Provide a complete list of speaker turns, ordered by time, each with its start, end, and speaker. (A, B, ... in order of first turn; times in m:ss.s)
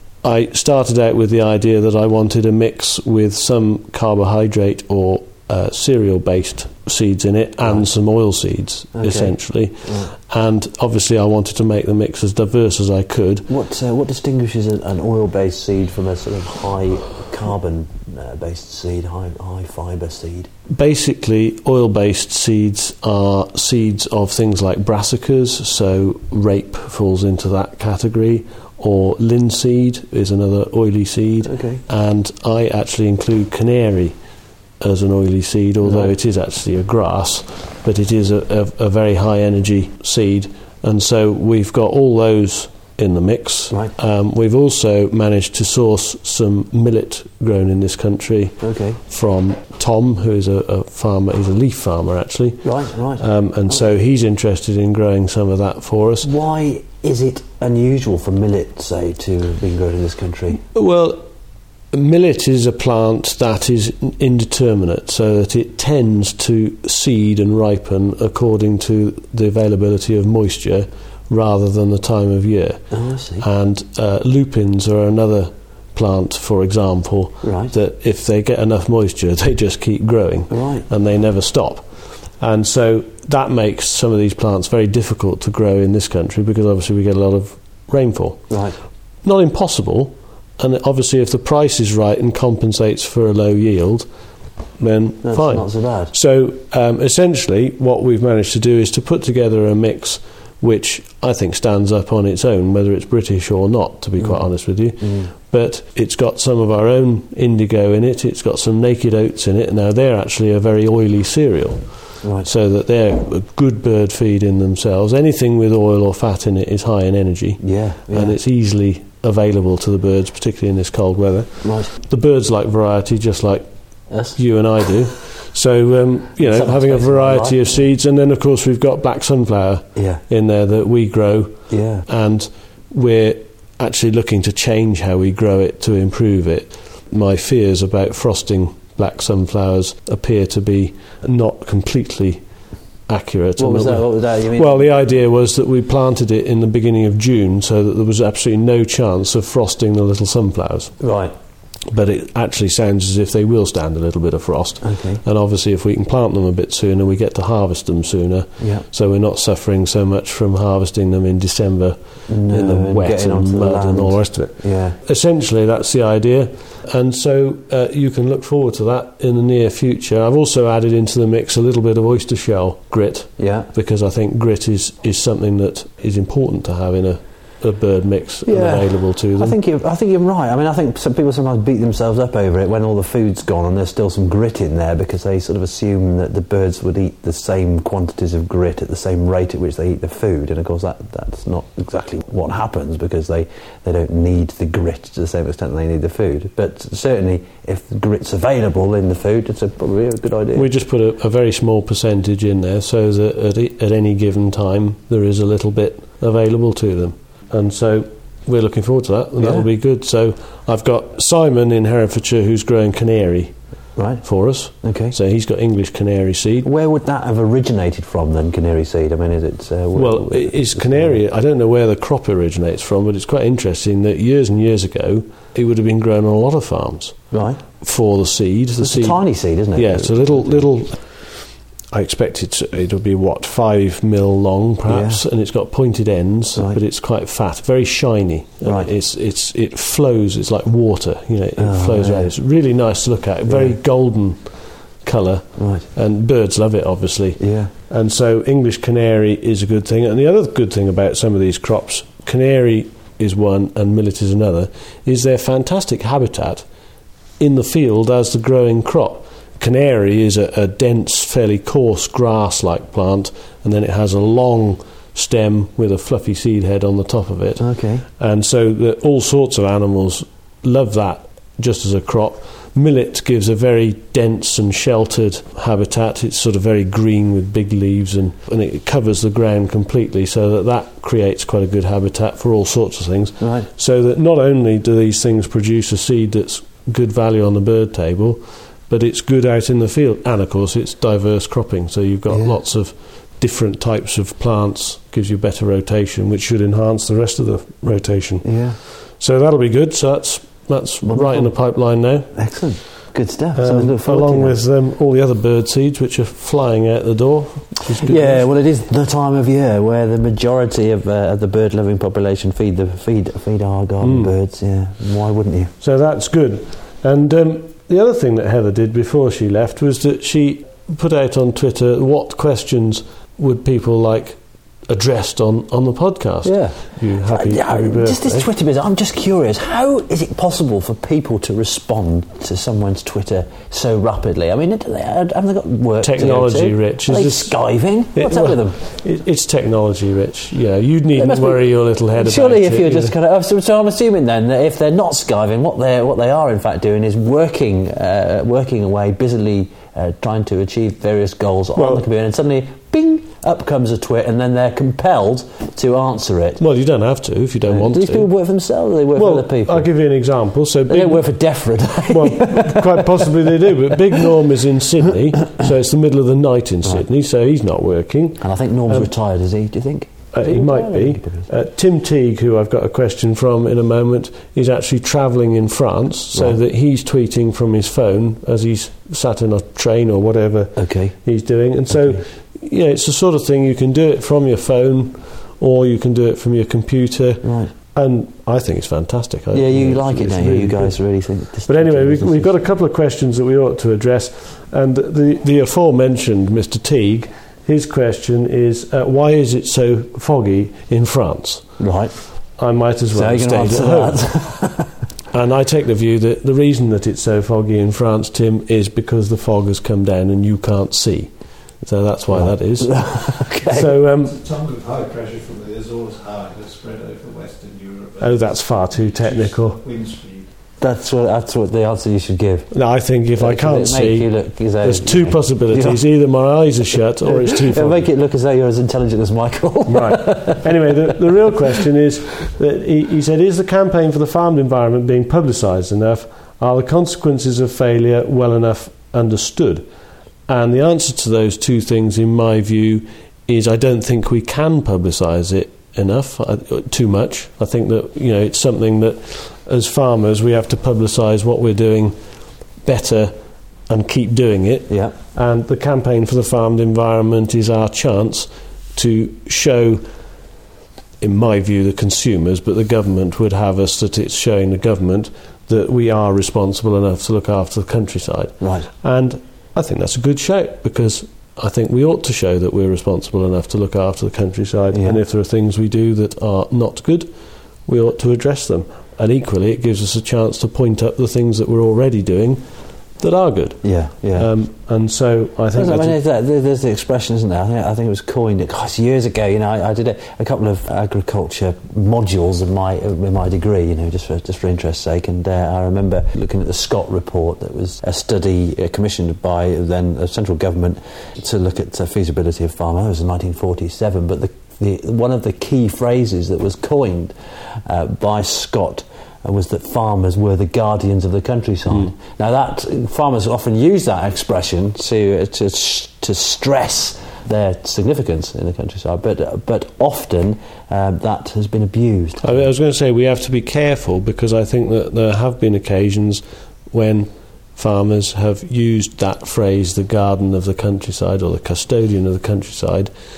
0:00.2-0:13.5 A
0:09.0-0:10.1 B
0:13.5-0:20.5 B
0:20.7-0:34.2 A
0:31.4-0:31.8 B
0:34.8-0:56.3 A
0:35.8-0:36.1 B
0:48.6-0:49.0 B
0:52.6-0:53.9 B
0:56.2-1:00.6 B
1:00.7-1:01.2 A
1:01.9-1:28.6 A
1:12.9-1:13.5 B
1:17.4-1:17.7 B
1:20.5-1:20.9 B
1:28.5-1:28.8 B
1:29.2-1:34.1 A
1:34.8-2:22.4 A
1:35.2-1:36.1 B
1:45.0-1:45.3 B
1:52.2-1:52.5 B
1:57.6-1:58.4 B
2:01.6-2:01.9 B
2:04.1-2:04.4 B
2:06.4-2:07.8 B
2:10.0-2:10.2 B
2:11.7-2:12.1 B
2:23.1-2:31.0 A
2:23.6-2:24.9 B
2:31.0-2:31.3 B
2:31.9-2:59.6 A
2:34.8-2:35.2 B
2:38.6-2:38.8 B
2:42.3-2:45.0 B
2:53.4-2:53.7 B
2:58.4-3:20.7 B
3:20.5-3:33.6 A
3:29.4-3:29.7 B
3:34.0-3:34.3 B
3:34.2-3:36.7 A
3:34.8-3:35.2 B
3:36.6-3:41.2 B
3:39.9-3:47.2 A
3:47.3-3:47.6 B
3:47.8-4:16.6 A
3:48.8-3:50.7 B
3:54.9-3:55.2 B
3:58.6-3:58.9 B
4:01.6-4:02.3 B
4:03.5-4:03.8 B
4:05.6-4:05.9 B
4:07.4-4:07.7 B
4:17.4-5:02.8 A
4:27.6-4:28.0 B
4:43.4-4:43.7 B
4:52.3-4:52.6 B
4:58.4-4:58.8 B
5:01.0-5:01.6 B
5:02.4-5:04.6 B
5:03.6-5:08.4 A
5:08.0-5:15.7 B
5:14.0-5:14.3 A
5:15.8-5:28.5 A
5:26.4-5:38.8 B
5:36.0-5:37.6 A
5:38.1-5:43.1 A
5:41.2-5:56.6 B
5:51.8-5:52.0 A
5:56.6-5:58.3 A
5:57.6-5:59.9 B
5:59.2-6:01.3 A
6:00.9-6:04.3 B
6:01.9-6:09.1 A
6:08.4-6:11.5 B
6:10.3-6:31.0 A
6:16.3-6:16.6 B
6:20.8-6:21.2 B
6:21.9-6:22.2 B
6:27.4-6:27.7 B
6:29.5-6:32.5 B
6:31.6-6:41.7 A
6:41.8-6:42.2 B
6:42.6-6:44.2 A
6:43.1-6:45.0 B
6:45.3-6:54.4 A
6:52.3-6:53.9 B
6:54.2-7:00.5 C
6:58.2-6:59.8 A
7:00.8-7:02.7 B
7:02.7-7:04.3 A
7:03.4-7:06.0 B
7:04.8-7:08.1 A
7:07.2-7:10.9 B
7:09.9-7:19.9 A
7:20.5-7:32.2 A
7:32.8-7:33.3 A
7:33.9-7:40.0 A
7:34.9-7:35.1 B
7:41.2-7:57.3 A
7:48.6-7:48.9 B
7:54.9-7:55.2 B
7:57.9-8:02.6 A
8:03.2-8:06.2 A
8:03.8-8:04.5 B
8:05.7-8:42.6 B
8:42.4-8:53.1 A